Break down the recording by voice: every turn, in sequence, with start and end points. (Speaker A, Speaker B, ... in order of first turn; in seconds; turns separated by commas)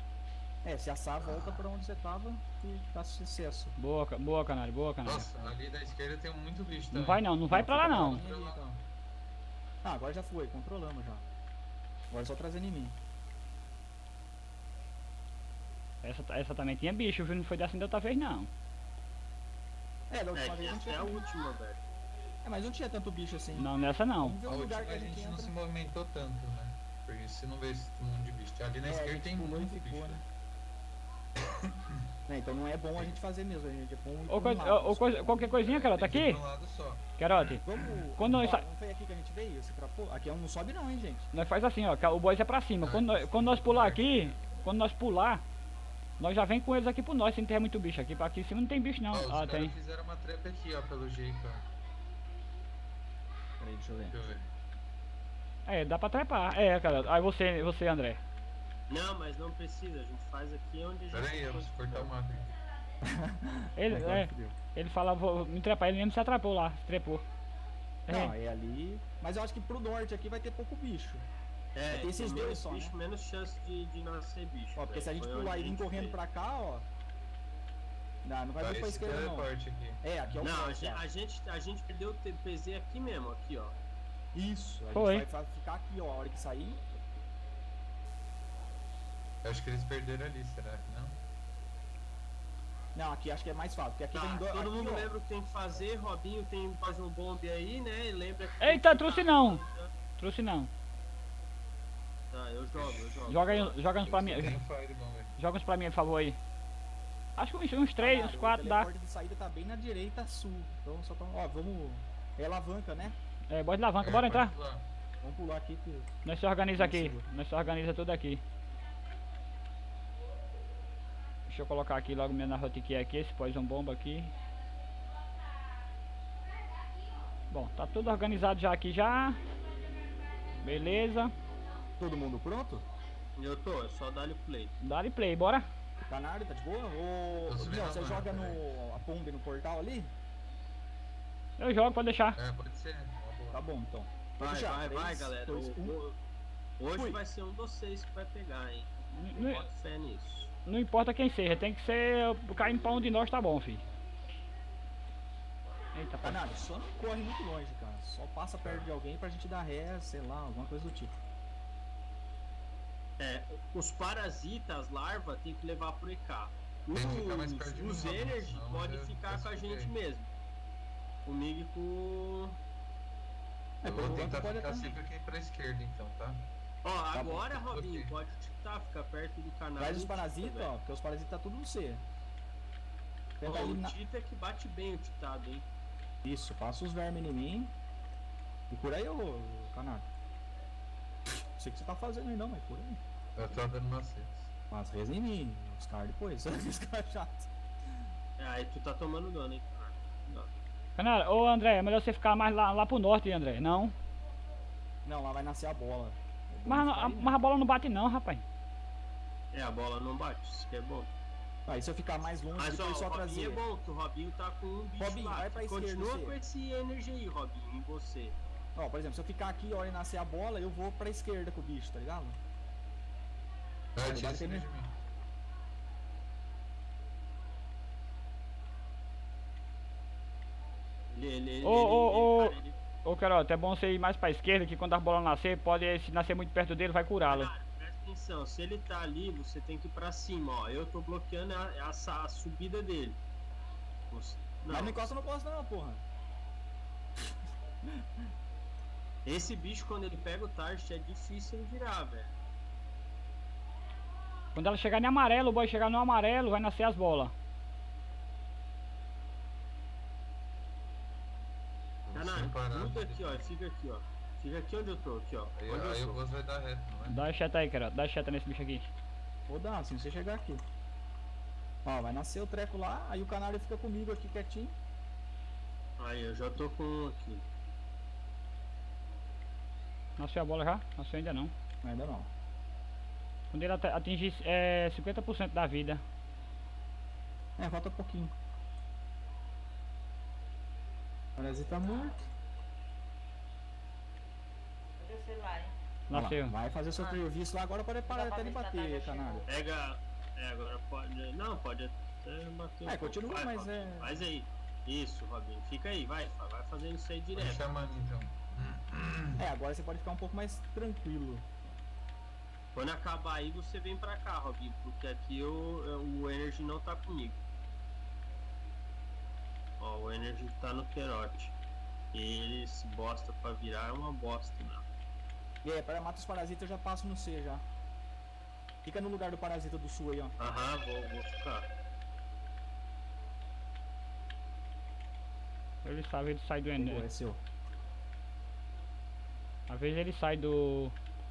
Speaker A: 0.6-3.8, Speaker B: 1.2-1.6, Speaker C: 3.8-5.5, Speaker B: 5.0-8.8, Speaker C: 6.9-8.2, Speaker A: 7.5-8.7, Speaker A: 9.8-11.2, Speaker A: 12.1-13.0, Speaker C: 16.0-18.5, Speaker A: 20.1-21.2, Speaker D: 20.4-21.8, Speaker A: 22.4-25.6, Speaker C: 23.6-24.4, Speaker B: 24.5-30.2, Speaker A: 28.8-30.2, Speaker B: 31.4-32.0, Speaker A: 32.3-35.6, Speaker C: 34.3-36.4, Speaker B: 35.5-37.9, Speaker C: 37.2-37.6, Speaker A: 37.6-41.3, Speaker C: 38.2-38.6, Speaker C: 41.3-45.4, Speaker B: 42.8-44.6, Speaker C: 46.2-49.8, Speaker B: 49.1-51.6, Speaker A: 53.6-54.2, Speaker B: 54.1-54.5, Speaker C: 55.7-58.2, Speaker D: 58.9-62.1, Speaker B: 61.1-62.6, Speaker A: 63.0-64.6, Speaker C: 63.8-67.2, Speaker C: 68.1-68.3, Speaker A: 68.1-71.3, Speaker D: 71.8-76.2, Speaker A: 71.9-73.0, Speaker A: 74.8-76.9, Speaker A: 78.2-81.0, Speaker B: 78.6-80.4, Speaker D: 80.4-83.8, Speaker A: 84.3-86.8, Speaker C: 84.9-85.3, Speaker B: 89.4-91.2, Speaker A: 93.0-95.1, Speaker D: 94.1-99.9, Speaker C: 98.6-99.6, Speaker C: 100.2-100.7, Speaker D: 102.3-103.8, Speaker B: 102.7-103.1, Speaker C: 103.3-104.6, Speaker B: 104.1-105.3, Speaker C: 105.4-106.4, Speaker C: 107.4-108.9, Speaker A: 108.0-113.2, Speaker C: 113.5-114.5, Speaker B: 114.0-114.9, Speaker A: 115.2-116.1, Speaker C: 116.2-118.4, Speaker A: 116.8-117.2, Speaker C: 121.5-124.3, Speaker C: 127.5-129.4, Speaker C: 130.6-131.3, Speaker A: 132.0-132.9, Speaker D: 133.4-134.8, Speaker C: 134.8-135.7, Speaker A: 136.1-140.1, Speaker B: 137.5-138.6, Speaker C: 141.6-142.4, Speaker B: 142.3-143.6, Speaker A: 143.5-146.0, Speaker D: 144.4-146.2, Speaker D: 146.8-150.5, Speaker A: 146.9-147.2, Speaker C: 149.2-149.7, Speaker C: 150.7-153.8, Speaker C: 155.9-156.6, Speaker A: 156.2-161.2, Speaker D: 163.2-170.3, Speaker B: 166.9-169.9, Speaker D: 171.2-172.6, Speaker A: 173.8-174.9, Speaker B: 173.8-176.5, Speaker D: 176.8-180.7, Speaker A: 177.1-177.5, Speaker B: 177.6-178.1, Speaker A: 179.8-182.0, Speaker A: 183.4-184.0, Speaker D: 183.4-185.7, Speaker A: 186.2-187.7, Speaker A: 188.7-190.1, Speaker A: 191.4-193.0, Speaker B: 193.4-194.5, Speaker A: 194.7-197.5, Speaker D: 198.4-200.5, Speaker C: 201.0-203.9, Speaker A: 205.0-207.4, Speaker C: 206.7-208.4, Speaker D: 209.5-211.1, Speaker A: 211.7-213.6, Speaker D: 212.6-218.3, Speaker A: 215.0-216.4, Speaker A: 218.8-222.4, Speaker B: 223.9-224.9, Speaker A: 224.0-224.7, Speaker D: 231.1-232.8, Speaker C: 231.6-237.5, Speaker D: 237.3-243.2, Speaker D: 244.1-245.0, Speaker A: 244.7-246.0, Speaker A: 247.8-248.2, Speaker D: 249.2-252.3, Speaker C: 254.6-257.3, Speaker B: 262.1-263.5, Speaker D: 262.1-266.2, Speaker B: 265.6-267.2, Speaker C: 267.1-268.9, Speaker A: 269.5-270.6, Speaker A: 271.9-274.8, Speaker D: 276.0-277.4, Speaker C: 280.2-281.5, Speaker A: 281.8-282.3, Speaker C: 283.5-286.0, Speaker A: 287.6-288.3, Speaker A: 291.4-292.2, Speaker E: 295.0-295.7, Speaker C: 296.1-296.5, Speaker A: 296.1-299.5, Speaker E: 297.0-297.2, Speaker E: 298.1-299.5, Speaker D: 299.5-307.7, Speaker A: 302.9-304.2, Speaker B: 307.4-309.4, Speaker A: 309.4-311.5, Speaker D: 312.7-317.4, Speaker D: 319.8-321.5, Speaker D: 322.1-324.8, Speaker A: 325.6-327.6, Speaker A: 328.8-330.4, Speaker D: 330.4-331.7, Speaker C: 335.8-337.1, Speaker A: 336.8-337.4, Speaker C: 339.7-340.9